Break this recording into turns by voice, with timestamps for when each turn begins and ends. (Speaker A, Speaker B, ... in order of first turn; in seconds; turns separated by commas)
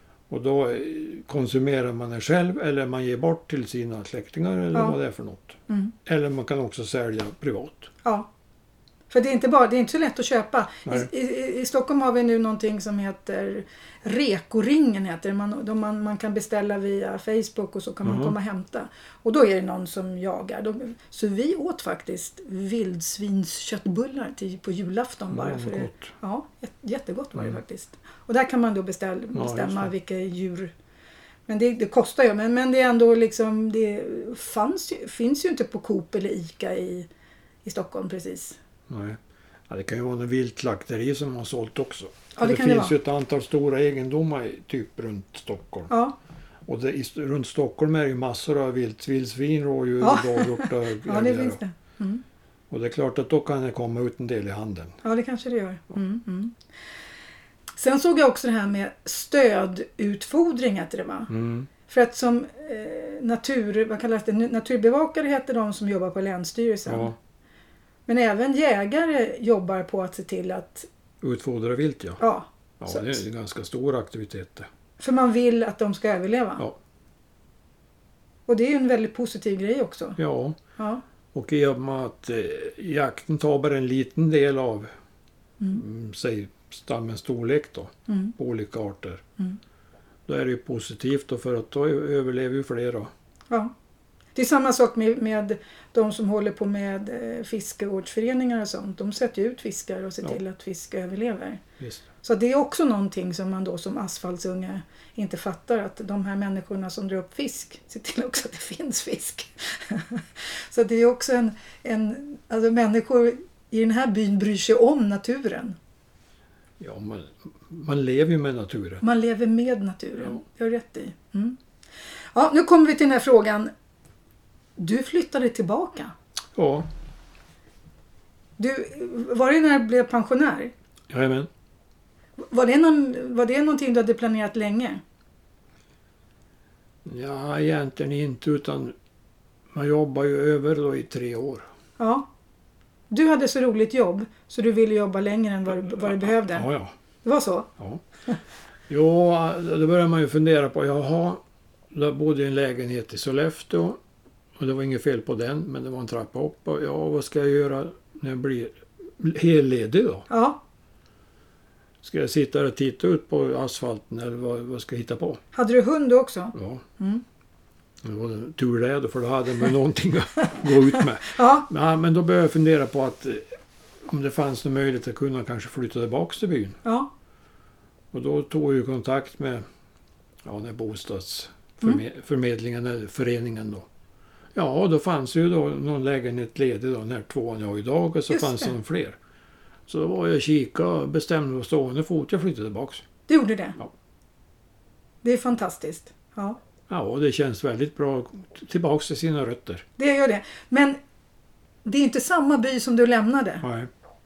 Speaker A: 0.3-7.9, Speaker B: 5.7-5.9, Speaker B: 8.0-8.3, Speaker B: 9.1-30.7, Speaker A: 18.0-18.3, Speaker A: 25.3-26.1, Speaker A: 29.3-29.9, Speaker B: 31.5-37.1, Speaker B: 37.6-38.6, Speaker A: 38.9-45.9, Speaker B: 42.4-42.9, Speaker B: 45.9-46.1, Speaker A: 46.6-51.6, Speaker B: 50.0-52.2, Speaker A: 52.7-55.0, Speaker B: 55.0-56.5, Speaker B: 57.8-61.3, Speaker A: 61.3-61.7, Speaker B: 61.9-67.1, Speaker A: 66.9-67.1, Speaker B: 68.1-70.9, Speaker A: 71.2-72.2, Speaker B: 72.2-73.2, Speaker A: 72.8-74.7, Speaker B: 75.0-76.6, Speaker B: 78.5-80.2, Speaker A: 80.2-80.6, Speaker B: 80.8-81.0, Speaker A: 81.3-84.9, Speaker A: 85.7-89.2, Speaker B: 88.1-88.3, Speaker A: 90.3-93.1, Speaker B: 94.3-101.6, Speaker B: 102.2-115.8, Speaker A: 116.8-119.0, Speaker B: 119.0-121.6, Speaker B: 122.3-123.7, Speaker B: 124.8-126.1, Speaker A: 126.5-126.9, Speaker B: 128.6-130.7, Speaker A: 131.1-131.5, Speaker B: 132.4-135.0, Speaker A: 137.0-138.9, Speaker A: 139.7-141.6, Speaker B: 142.0-142.3, Speaker B: 143.1-146.7, Speaker A: 145.8-146.9, Speaker B: 147.2-147.7, Speaker A: 148.9-154.0, Speaker A: 154.6-160.2, Speaker B: 160.3-160.6, Speaker A: 162.0-165.4, Speaker B: 165.5-167.2, Speaker A: 166.5-166.8, Speaker A: 168.0-173.5, Speaker B: 171.2-171.7, Speaker A: 174.0-176.8, Speaker B: 176.8-177.1, Speaker A: 178.1-179.6, Speaker A: 180.4-183.9, Speaker A: 184.5-189.2, Speaker B: 188.3-188.7, Speaker A: 189.9-193.0, Speaker B: 193.3-193.8, Speaker B: 195.2-196.6, Speaker A: 196.9-199.8, Speaker B: 200.0-201.0, Speaker B: 201.8-203.6, Speaker A: 203.6-203.9